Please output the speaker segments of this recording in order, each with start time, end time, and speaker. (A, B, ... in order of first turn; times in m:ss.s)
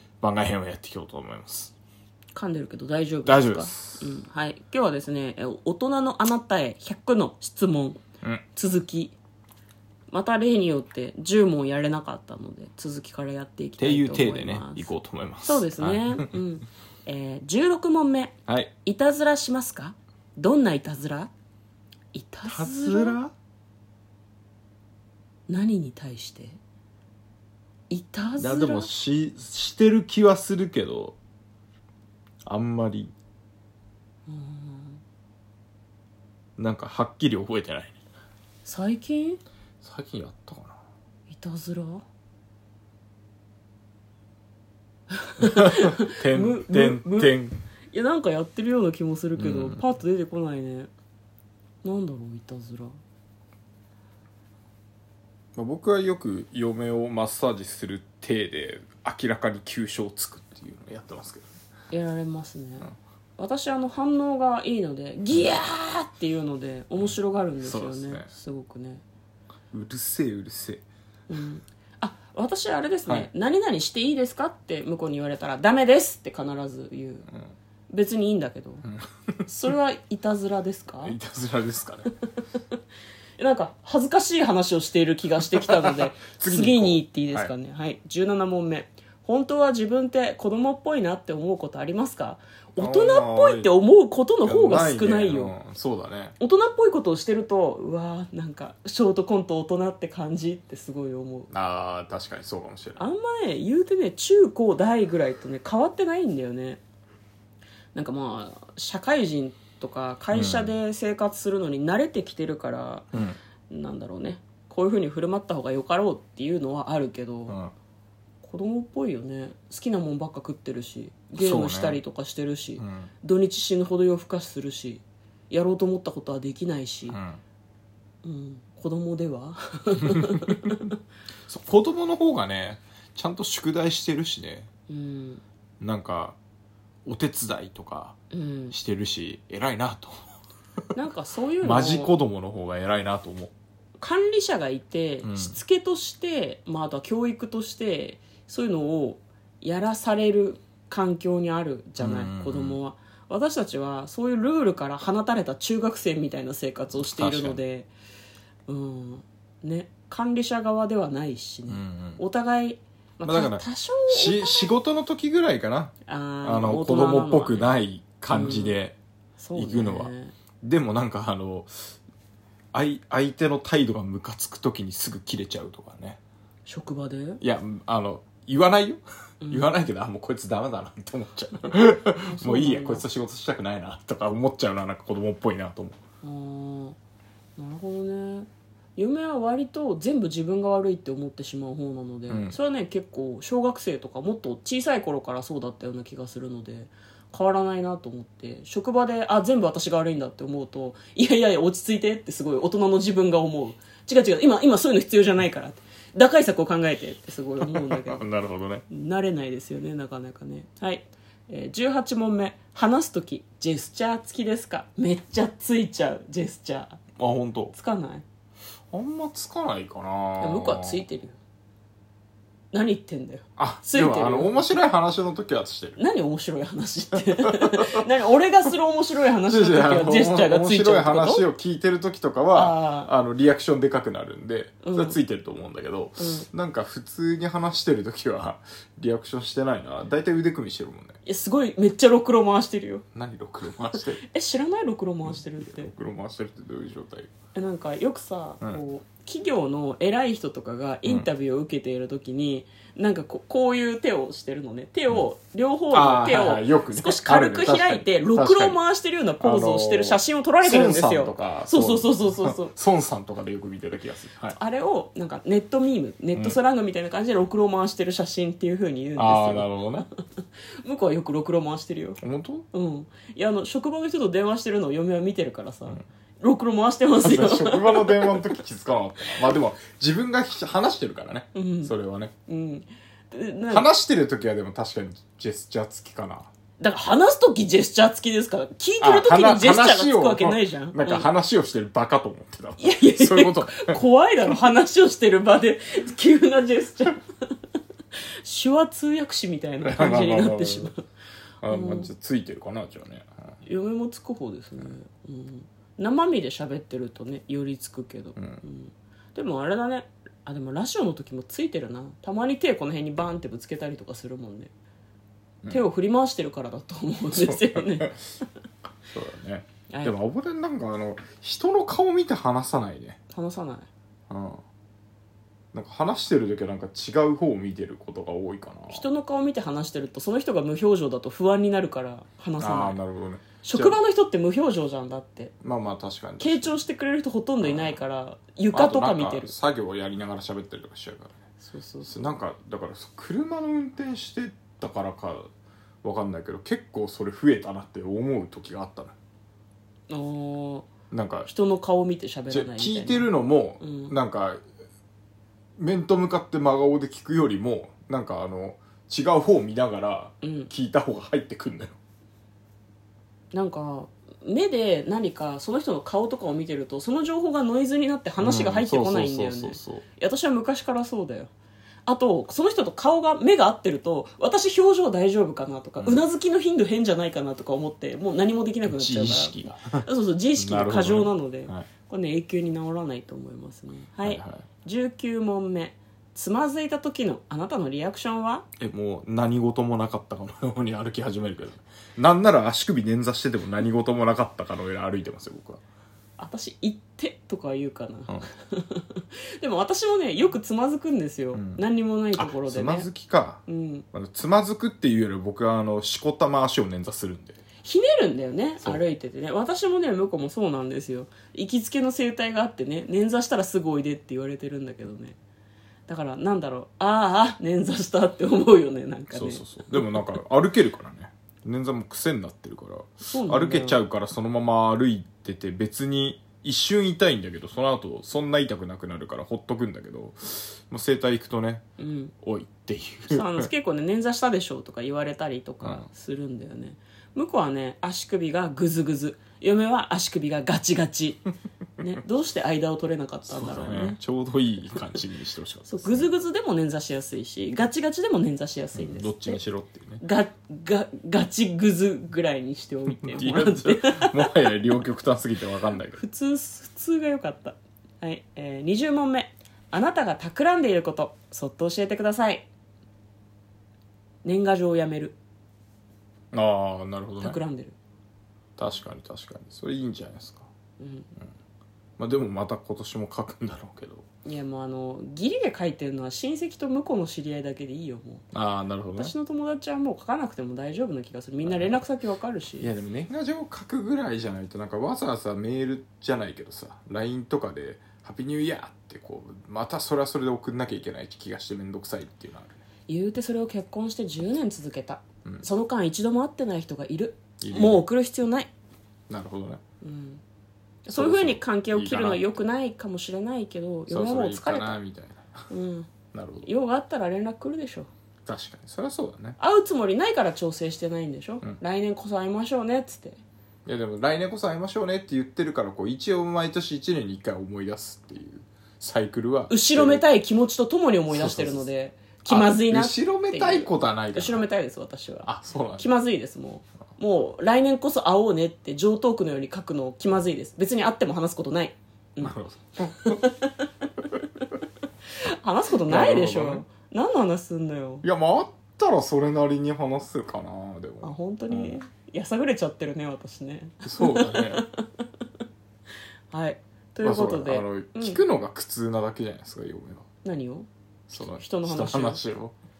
0:00.2-0:01.7 A
0:02.3-0:09.2 B
0:03.2-0:04.1 A
0:10.1-0:14.9 B
0:13.8-0:16.4 A
0:15.4-0:21.3 B
0:18.5-0:18.7 A
0:22.1-0:23.2 B
0:22.5-0:23.3 A
0:25.5-0:26.6 B
0:27.9-0:28.9 B
0:28.4-0:31.2 A
0:32.4-0:33.1 A
0:34.3-0:35.0 B
0:36.6-0:38.0 A
0:38.6-0:39.4 B
0:39.8-0:40.8 A
0:41.3-0:42.0 B
0:45.1-0:47.3 B
0:45.4-0:47.6 A
0:47.9-0:50.9 B
0:49.4-0:49.8 A
0:51.8-0:53.0 B
0:55.6-1:01.5 A
1:01.9-1:09.0 B
1:07.0-1:08.3 A
1:09.7-1:10.8 A
1:11.3-1:17.3 B
1:17.9-1:18.8 B
1:18.8-1:19.5 A
1:19.5-1:21.2 B
1:21.0-1:22.1 A
1:23.4-1:35.5 B
1:25.4-1:27.5 A
1:32.8-1:33.7 A
1:34.4-1:36.3 A
1:36.4-1:41.5 B
1:41.5-1:43.0 A
1:43.0-1:46.8 B
1:47.9-1:53.1 B
1:50.3-1:50.7 A
1:53.1-1:53.4 A
1:53.7-1:57.6 B
1:57.5-1:57.7 A
1:58.4-2:07.2 B
2:01.3-2:02.0 A
2:02.8-2:03.1 A
2:07.1-2:07.4 A
2:08.2-2:10.9 B
2:10.1-2:10.6 A
2:11.5-2:14.7 A
2:14.9-2:15.4 B
2:15.8-2:16.4 A
2:17.0-2:18.2 A
2:18.3-2:18.7 B
2:18.7-2:20.2 A
2:20.9-2:22.1 B
2:21.6-2:23.5 A
2:24.0-2:37.9 B
2:25.2-2:25.6 A
2:32.0-2:32.8 A
2:37.0-2:37.6 A
2:38.7-2:44.7 B
2:41.7-2:42.2 A
2:43.2-2:49.0 A
2:46.0-2:47.7 B
2:48.3-2:48.8 B
2:49.4-2:50.3 B
2:49.5-2:50.1 A
2:50.6-2:51.7 A
2:52.7-2:56.2 A
2:56.6-2:57.4 B
2:57.4-3:06.0 A
2:59.4-2:59.7 B
3:02.2-3:03.0 B
3:06.2-3:07.0 B
3:07.6-3:28.2 B
3:12.3-3:12.6 A
3:27.6-3:28.8 A
3:28.9-3:37.0 B
3:37.2-3:37.7 A
3:37.7-3:38.2 B
3:38.9-3:41.0 A
3:40.4-3:41.4 B
3:42.7-3:44.7 B
3:43.6-3:46.0 A
3:46.0-3:51.4 B
3:47.4-3:47.8 A
3:49.4-4:01.2 A
3:52.5-3:53.1 B
3:54.8-3:55.2 B
3:56.2-3:56.4 B
4:01.2-4:03.0 B
4:03.1-4:04.2 A
4:04.2-4:05.9 B
4:05.2-4:07.3 A
4:07.5-4:22.7 B
4:15.9-4:18.8 A
4:19.4-4:24.6 A
4:24.5-4:30.0 B
4:29.2-4:30.1 A
4:30.8-4:32.2 B
4:32.2-4:32.6 A
4:32.7-4:38.4 B
4:37.2-4:42.3 A
4:41.5-4:41.9 B
4:42.5-4:43.9 B
4:43.7-4:46.5 A
4:46.8-4:51.3 B
4:49.0-4:54.0 A
4:52.8-4:57.2 B
4:58.4-5:01.0 B
4:59.8-5:00.9 A
5:01.6-5:03.3 A
5:01.7-5:02.1 B
5:03.6-5:14.7 B
5:08.4-5:08.6 A
5:15.7-5:18.2 B
5:17.3-5:18.2 A
5:19.1-5:23.2 A
5:19.9-5:20.2 B
5:23.3-5:23.9 B
5:24.3-5:24.6 A
5:25.7-5:29.0 A
5:28.9-5:33.0 B
5:32.6-5:34.0 A
5:33.6-5:35.5 B
5:35.6-5:36.7 A
5:36.4-5:39.6 B
5:37.6-5:38.0 A
5:38.7-5:41.4 A
5:41.6-5:42.2 B
5:42.1-5:45.5 A
5:46.0-5:49.2 A
5:50.1-5:50.9 B
5:51.1-5:51.5 A
5:51.4-5:54.1 B
5:52.5-5:54.6 A
5:55.8-6:02.0 A
6:00.4-6:00.7 B
6:03.5-6:11.5 B
6:08.4-6:10.0 A
6:12.1-6:28.6 B
6:18.8-6:21.9 A
6:24.2-6:24.6 A
6:28.8-6:35.8 A
6:36.4-6:43.1 B
6:41.5-6:41.8 A
6:42.4-6:43.6 A
6:43.7-6:44.0 B
6:44.1-6:47.6 A
6:47.8-6:55.4 B
6:56.1-7:00.2 B
6:59.3-7:11.8 A
7:03.3-7:04.0 B
7:12.0-7:12.3 B
7:12.4-7:13.7 A
7:13.3-7:21.5 B
7:15.8-7:16.1 A
7:22.0-7:24.2 B
7:23.5-7:26.3 A
7:25.9-7:29.6 B
7:28.9-7:30.2 A
7:30.2-7:34.7 B
7:33.1-7:36.2 A
7:36.2-7:42.7 B
7:44.4-7:45.4 B
7:46.5-7:47.6 A
7:47.4-7:48.0 B
7:48.8-7:50.7 A
7:51.0-7:51.3 B
7:52.2-7:54.2 A
7:54.4-7:58.4 B
7:58.5-7:59.3 A
7:59.2-8:02.9 B
8:01.6-8:02.0 A
8:02.8-8:12.8 A
8:13.1-8:18.7 B
8:17.6-8:18.0 A
8:19.3-8:19.8 A
8:20.0-8:20.4 B
8:21.0-8:25.0 B
8:21.1-8:22.6 A
8:24.1-8:25.7 A
8:25.7-8:26.1 B
8:26.3-8:26.7 A
8:26.6-8:28.1 B
8:28.4-8:29.6 A
8:29.6-8:33.4 B
8:33.8-8:40.2 A
8:39.7-8:52.5 B
8:41.3-8:41.9 A
8:42.4-8:44.6 A
8:45.4-8:46.1 A
8:52.4-8:53.4 A
8:53.2-8:53.7 B
8:55.4-8:58.2 B
8:56.0-8:56.8 A
8:58.2-9:02.0 A
9:01.2-9:05.3 B
9:04.0-9:04.8 A
9:06.5-9:08.4 B
9:07.2-9:10.3 A
9:10.4-9:12.4 B
9:11.3-9:12.7 A